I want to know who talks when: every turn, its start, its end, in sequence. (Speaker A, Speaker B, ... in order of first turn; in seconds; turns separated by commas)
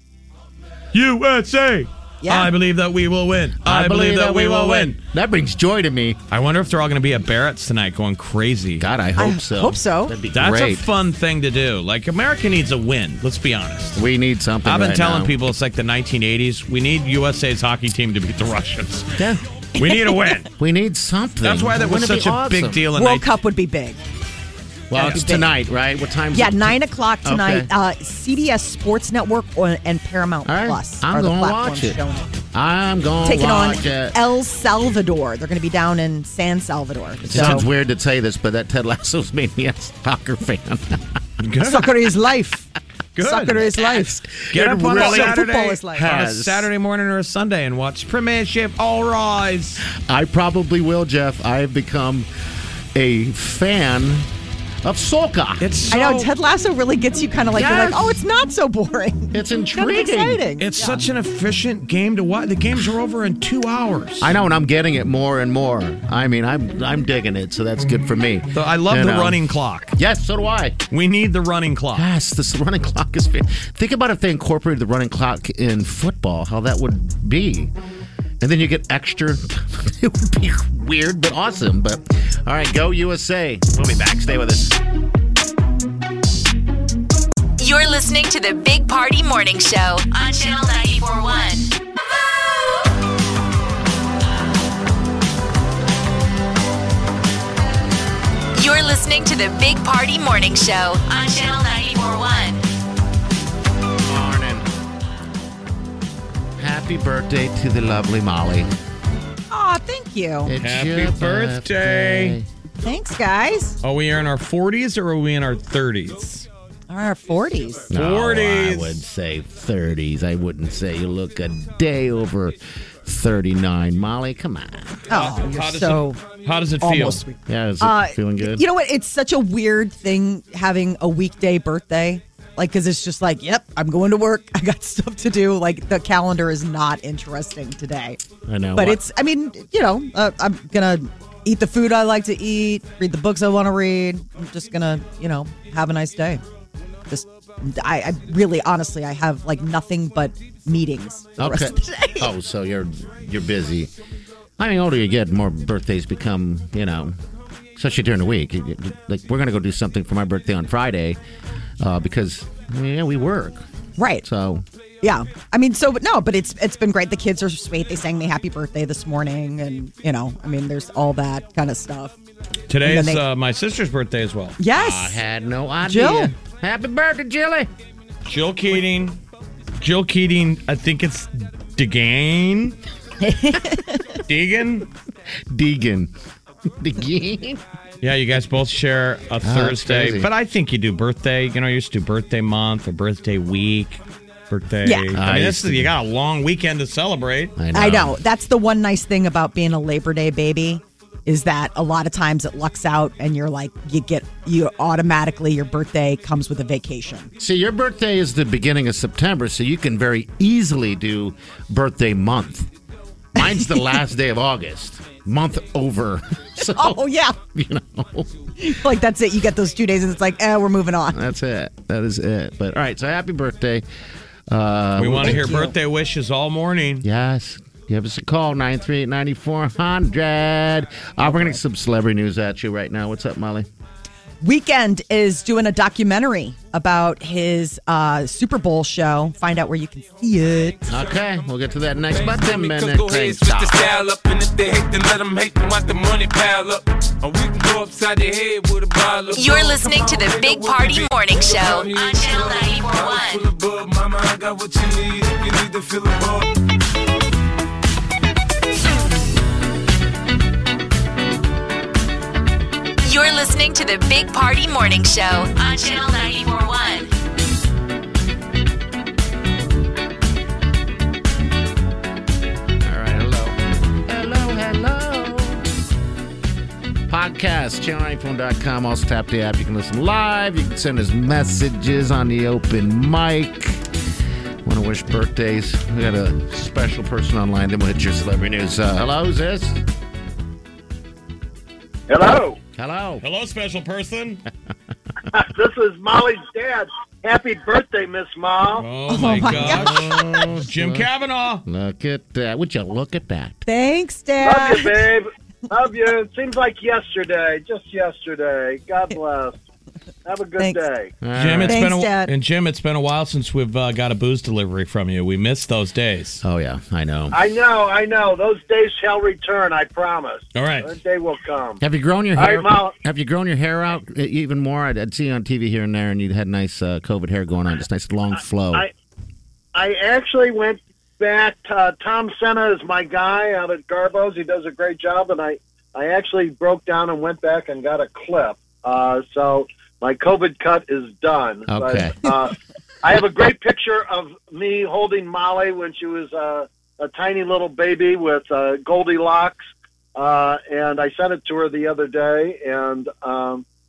Speaker A: 0.9-5.0, Speaker B: 2.2-2.5, Speaker C: 3.6-6.2, Speaker A: 6.3-8.8, Speaker C: 8.8-10.9, Speaker B: 9.2-10.1, Speaker A: 10.3-14.0, Speaker C: 13.9-15.3, Speaker A: 14.6-19.2, Speaker C: 19.2-19.4, Speaker A: 19.8-20.5, Speaker B: 19.8-20.1, Speaker C: 20.6-22.8, Speaker A: 21.4-23.3, Speaker B: 23.0-24.0, Speaker C: 24.9-26.7, Speaker B: 24.9-25.5, Speaker A: 25.0-25.2, Speaker B: 26.3-32.3, Speaker C: 27.2-27.7, Speaker C: 30.4-32.0, Speaker C: 32.5-34.2, Speaker B: 33.2-37.7, Speaker C: 37.2-41.2, Speaker A: 37.3-37.6, Speaker A: 41.4-42.0, Speaker B: 41.6-42.7, Speaker A: 43.1-49.8, Speaker B: 43.2-46.1, Speaker C: 44.5-45.4, Speaker C: 46.0-46.7, Speaker C: 49.9-52.3, Speaker C: 52.9-54.3, Speaker C: 54.8-55.7, Speaker A: 55.6-56.3, Speaker B: 55.9-61.0, Speaker C: 57.5-58.2, Speaker C: 59.3-60.4, Speaker A: 60.6-64.3, Speaker C: 64.2-69.4, Speaker A: 68.5-69.9, Speaker C: 70.0-70.8, Speaker A: 70.9-72.0, Speaker C: 71.9-77.7, Speaker C: 78.4-84.8, Speaker D: 87.6-91.7, Speaker D: 98.5-102.6, Speaker C: 104.0-104.7, Speaker C: 106.6-108.7, Speaker B: 109.5-110.5, Speaker C: 110.4-112.5, Speaker A: 110.6-112.4, Speaker B: 112.8-113.8, Speaker A: 113.8-116.5, Speaker B: 116.9-117.9, Speaker C: 117.9-125.0, Speaker A: 117.9-119.0, Speaker B: 125.1-126.2, Speaker A: 125.1-127.2, Speaker B: 126.8-138.2, Speaker C: 127.5-128.6, Speaker C: 138.4-139.0, Speaker B: 138.7-146.4, Speaker B: 147.1-152.3, Speaker C: 151.4-153.9, Speaker C: 154.6-157.2, Speaker C: 157.8-161.2, Speaker C: 161.8-163.6, Speaker B: 164.0-164.2, Speaker C: 164.2-164.6, Speaker B: 165.0-172.2, Speaker A: 172.7-174.6, Speaker B: 172.8-173.2, Speaker B: 174.6-175.2, Speaker C: 174.7-177.7, Speaker B: 175.8-176.3, Speaker A: 178.3-179.2, Speaker A: 179.8-182.8, Speaker B: 183.2-184.0, Speaker A: 184.3-184.9, Speaker C: 185.5-186.1, Speaker C: 186.7-187.6, Speaker A: 188.0-197.5, Speaker C: 189.4-190.3, Speaker B: 194.8-195.1, Speaker C: 195.1-195.9, Speaker C: 197.6-198.2, Speaker B: 197.7-207.3, Speaker C: 207.4-212.7, Speaker C: 213.3-218.3, Speaker B: 213.4-214.0, Speaker B: 216.6-217.3, Speaker B: 218.6-221.2, Speaker C: 221.1-223.8, Speaker C: 224.5-225.5, Speaker A: 224.9-227.0, Speaker B: 225.2-225.7, Speaker C: 227.0-233.7, Speaker B: 234.4-240.9, Speaker C: 240.9-243.8, Speaker E: 242.1-256.5, Speaker D: 249.3-253.5, Speaker D: 263.0-267.1, Speaker C: 272.8-275.7, Speaker C: 277.1-283.9, Speaker C: 284.6-289.8, Speaker F: 292.1-292.6, Speaker C: 292.8-293.2, Speaker A: 293.2-294.4, Speaker F: 295.3-298.9, Speaker A: 298.7-301.6, Speaker B: 299.1-300.2, Speaker C: 299.4-301.1, Speaker C: 301.6-303.6, Speaker B: 303.6-305.0, Speaker F: 304.4-309.6, Speaker F: 310.2-311.1, Speaker B: 310.6-310.8, Speaker C: 311.2-311.9, Speaker A: 311.3-316.4, Speaker B: 311.6-312.3, Speaker C: 316.4-317.4, Speaker F: 317.3-321.8, Speaker A: 320.5-320.9, Speaker C: 321.8-328.8, Speaker F: 322.4-322.9, Speaker F: 329.7-349.6, Speaker C: 341.7-342.3, Speaker F: 350.1-353.6